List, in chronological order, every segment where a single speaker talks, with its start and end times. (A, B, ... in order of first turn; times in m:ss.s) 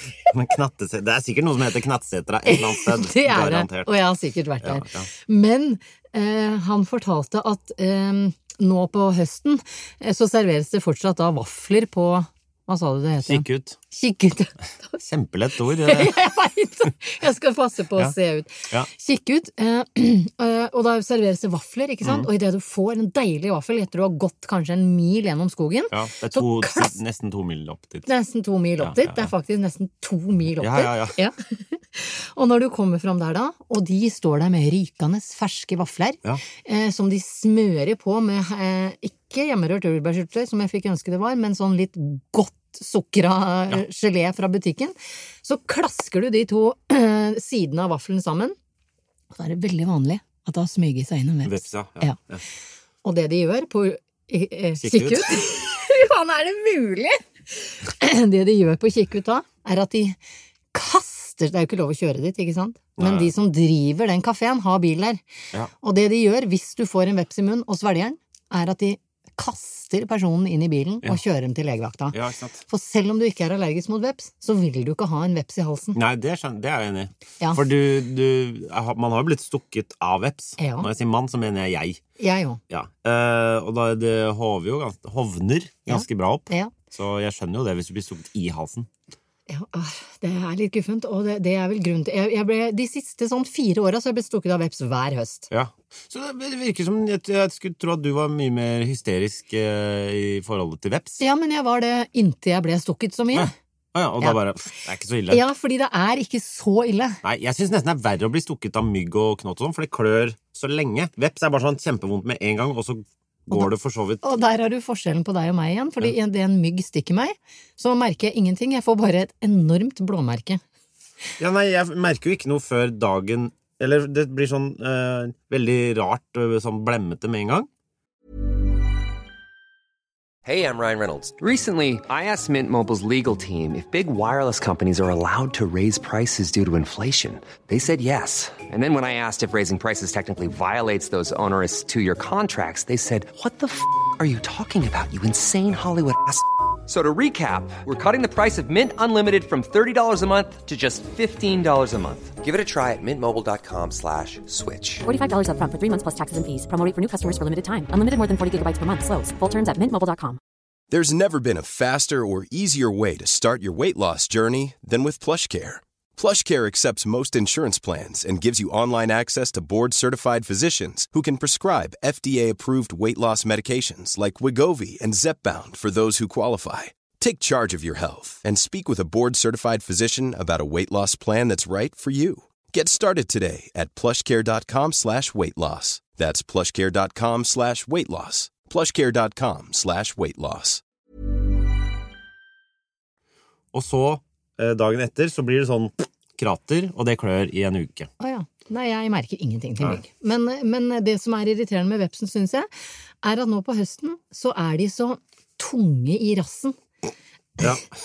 0:00.2-0:03.9 A
0:02.4-0:15.0 B
0:04.6-0:05.1 A
0:13.2-0:13.8 A
0:15.0-0:16.2 A
0:15.8-0:26.9 B
0:22.0-0:22.3 A
0:25.9-0:28.1 A
0:28.0-0:48.6 B
0:28.8-0:29.3 A
0:30.6-0:31.2 A
0:49.3-0:52.2 B
0:51.4-0:52.4 A
0:53.0-1:00.2 B
0:54.8-0:55.4 A
1:00.7-1:05.2 B
1:03.0-1:03.3 A
1:05.8-1:16.0 B
1:12.1-1:12.6 A
1:15.9-1:22.0 A
1:20.6-1:20.9 B
1:22.2-1:22.6 B
1:22.7-1:28.9 A
1:25.9-1:26.7 B
1:29.5-1:35.5 B
1:35.5-1:41.2 A
1:41.2-1:43.5 B
1:43.3-1:45.4 A
1:45.3-1:47.2 B
1:47.2-1:54.2 A
1:54.2-2:00.6 B
2:01.4-2:07.7 A
2:10.4-2:35.0 C
2:35.0-2:40.4 D
2:40.9-3:10.8 E
3:13.7-3:18.1 A
3:18.2-3:22.7 B
3:23.2-3:26.8 B